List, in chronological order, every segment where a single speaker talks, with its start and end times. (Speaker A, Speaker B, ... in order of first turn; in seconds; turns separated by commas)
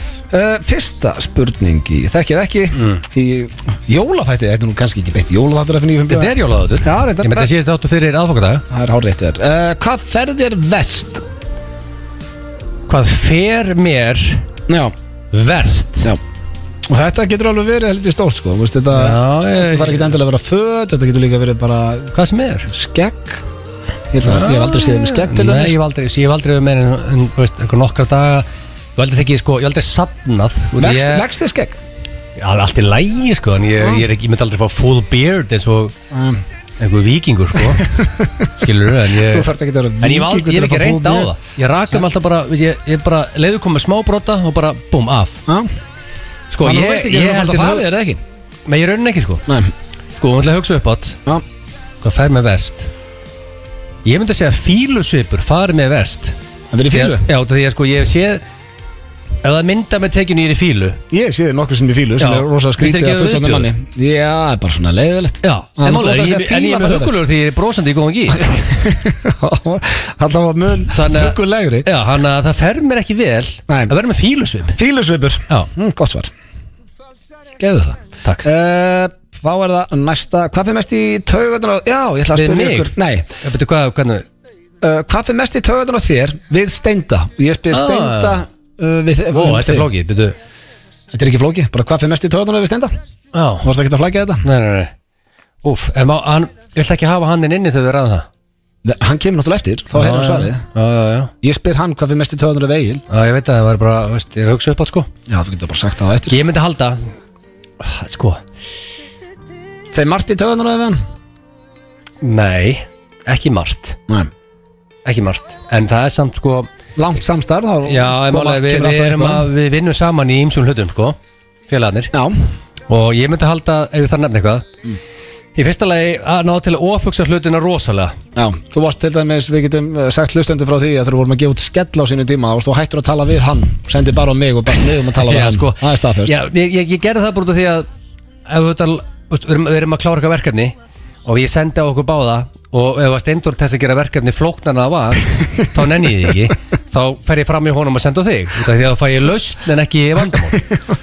Speaker A: 0.3-7.5, Speaker B: 2.7-3.0, Speaker B: 6.1-8.6, Speaker A: 8.7-11.2, Speaker B: 12.9-14.5, Speaker A: 14.7-14.9, Speaker B: 15.3-16.1, Speaker A: 16.9-22.1, Speaker B: 18.9-20.1, Speaker B: 22.1-22.7, Speaker A: 22.7-23.4, Speaker A: 24.1-25.7, Speaker B: 24.2-31.2, Speaker A: 30.8-31.8, Speaker B: 32.4-35.9, Speaker A: 36.1-36.4, Speaker B: 36.8-37.9, Speaker A: 37.7-38.5, Speaker B: 38.6-39.5, Speaker A: 39.1-41.3, Speaker B: 40.0-45.4, Speaker B: 46.5-47.8, Speaker A: 46.6-48.2, Speaker B: 48.7-49.4, Speaker B: 50.2-51.2, Speaker B: 52.0-52.9, Speaker B: 54.0-56.4, Speaker A: 56.7-57.3, Speaker B: 56.9-58.4, Speaker B: 59.4-61.0, Speaker A: 61.1-67.2, Speaker B: 62.2-63.7, Speaker B: 65.4-68.5, Speaker A: 68.4-71.8, Speaker B: 70.9-74.7, Speaker A: 74.7-76.3, Speaker A: 77.6-83.3, Speaker B: 82.3-84.2, Speaker A: 84.8-89.9, Speaker B: 87.7-88.4, Speaker B: 89.3-90.3, Speaker A: 91.1-92.9, Speaker B: 93.3-93.7, Speaker A: 93.6-94.4, Speaker B: 94.4-94.9, Speaker B: 95.6-98.2, Speaker A: 98.8-100.6, Speaker B: 99.9-101.3, Speaker A: 101.4-103.0, Speaker B: 103.1-105.1, Speaker A: 105.3-106.3, Speaker B: 106.3-107.0, Speaker B: 107.8-108.4, Speaker A: 109.9-111.0, Speaker B: 112.2-114.0, Speaker B: 115.0-116.7, Speaker A: 117.0-119.5, Speaker B: 117.8-121.2, Speaker B: 121.7-122.1, Speaker B: 122.9-124.7, Speaker B: 125.5-128.2, Speaker A: 128.3-136.3, Speaker B: 135.2-137.9, Speaker B: 138.5-140.7, Speaker B: 141.2-150.7